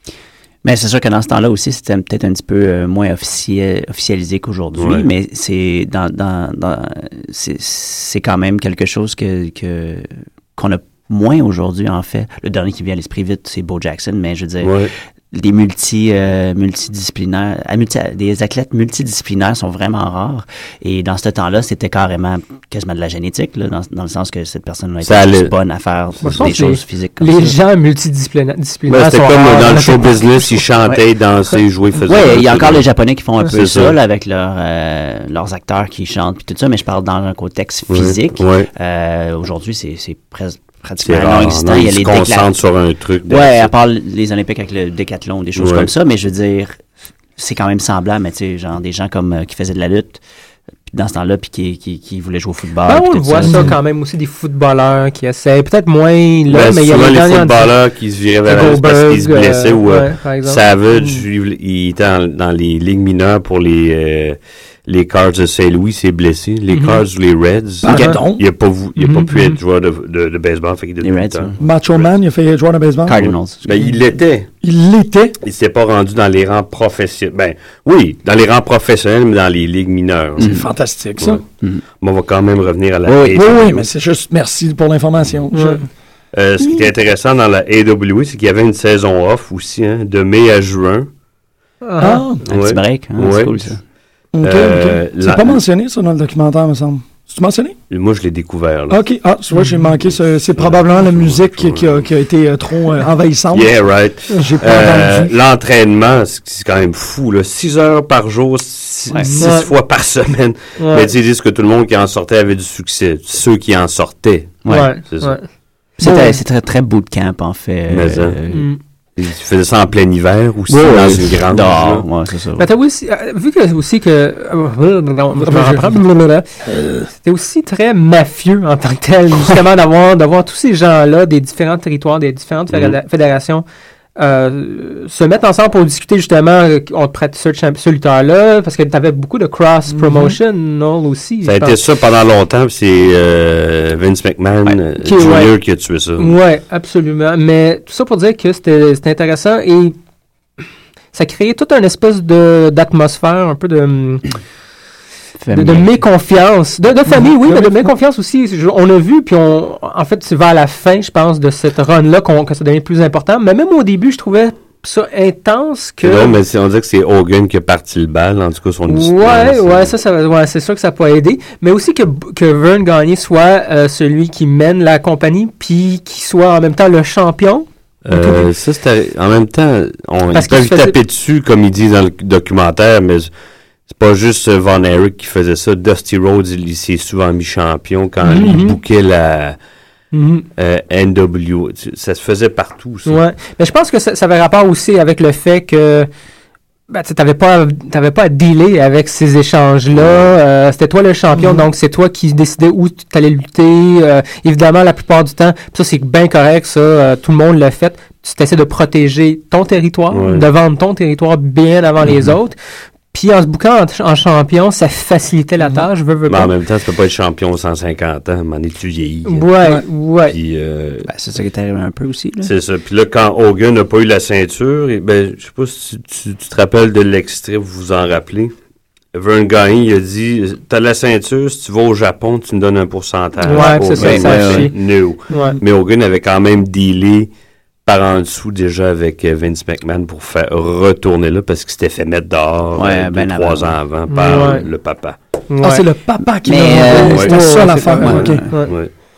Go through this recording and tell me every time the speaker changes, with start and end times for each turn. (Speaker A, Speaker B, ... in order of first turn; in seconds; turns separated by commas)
Speaker A: 0.6-27.6, Speaker B: 4.8-5.1, Speaker B: 14.6-14.9, Speaker B: 25.0-25.5, Speaker C: 26.2-30.6, Speaker B: 28.9-32.9, Speaker A: 32.0-42.5, Speaker B: 33.5-34.0, Speaker B: 37.9-38.7, Speaker B: 41.0-43.7, Speaker A: 43.3-50.2, Speaker B: 45.6-45.9, Speaker A: 50.9-53.8, Speaker C: 52.9-57.7, Speaker B: 56.5-72.1, Speaker C: 58.5-60.6, Speaker D: 60.9-61.2, Speaker C: 66.7-67.0, Speaker D: 67.8-68.5, Speaker A: 67.9-68.2, Speaker C: 67.9-68.2, Speaker C: 69.0-69.6, Speaker A: 71.0-71.6, Speaker D: 71.6-73.2, Speaker A: 73.1-73.9, Speaker B: 73.2-74.5, Speaker D: 74.6-75.4, Speaker B: 75.4-80.6, Speaker A: 80.4-80.7, Speaker D: 80.4-81.4, Speaker B: 81.2-81.4, Speaker B: 82.0-83.7, Speaker A: 83.1-83.9, Speaker D: 83.3-85.9, Speaker C: 85.5-85.8, Speaker B: 86.3-91.1, Speaker D: 86.6-86.9, Speaker C: 91.8-92.3, Speaker D: 92.0-92.4, Speaker A: 92.5-93.8, Speaker B: 92.5-93.7, Speaker D: 94.3-97.8, Speaker B: 94.4-95.6, Speaker B: 97.9-99.0, Speaker D: 98.9-105.4, Speaker C: 99.5-99.8, Speaker B: 100.2-102.0, Speaker B: 103.5-115.4, Speaker C: 109.4-109.7, Speaker C: 110.8-111.1, Speaker A: 114.7-114.9, Speaker C: 114.7-115.5, Speaker A: 116.0-118.7, Speaker D: 116.0-116.4, Speaker C: 116.0-116.3, Speaker B: 117.9-118.4, Speaker C: 118.5-118.8, Speaker B: 119.2-122.0, Speaker A: 120.7-122.7, Speaker C: 122.6-126.5, Speaker D: 125.3-126.0, Speaker D: 126.7-127.1, Speaker C: 127.1-133.6, Speaker C: 134.2-141.8, Speaker D: 139.9-140.4, Speaker B: 141.4-146.4, Speaker C: 145.0-145.5, Speaker C: 146.2-150.0, Speaker C: 151.1-154.3, Speaker A: 155.4-156.0, Speaker C: 155.5-166.4, Speaker B: 166.0-169.9, Speaker C: 168.9-178.5, Speaker B: 178.1-183.3, Speaker C: 180.3-181.0, Speaker B: 183.9-189.6, Speaker C: 188.2-188.8, Speaker C: 190.1-190.4, Speaker B: 190.6-193.2, Speaker C: 193.1-196.1, Speaker C: 196.9-212.6, Speaker B: 199.9-200.3, Speaker D: 201.3-201.7, Speaker B: 210.1-210.5, Speaker A: 212.0-212.3, Speaker C: 213.1-216.5, Speaker B: 216.3-219.5, Speaker C: 219.3-220.4, Speaker B: 220.3-221.1, Speaker A: 221.1-222.5, Speaker B: 222.4-228.5, Speaker B: 229.1-237.3, Speaker C: 233.4-234.7, Speaker A: 233.5-234.7, Speaker C: 235.3-235.6, Speaker D: 235.3-235.6, Speaker B: 237.8-245.2, Speaker A: 242.8-243.8, Speaker C: 244.1-244.7, Speaker C: 245.5-245.8, Speaker D: 245.6-248.7, Speaker A: 246.4-248.5, Speaker C: 246.9-248.8, Speaker B: 247.0-247.3, Speaker B: 248.1-248.9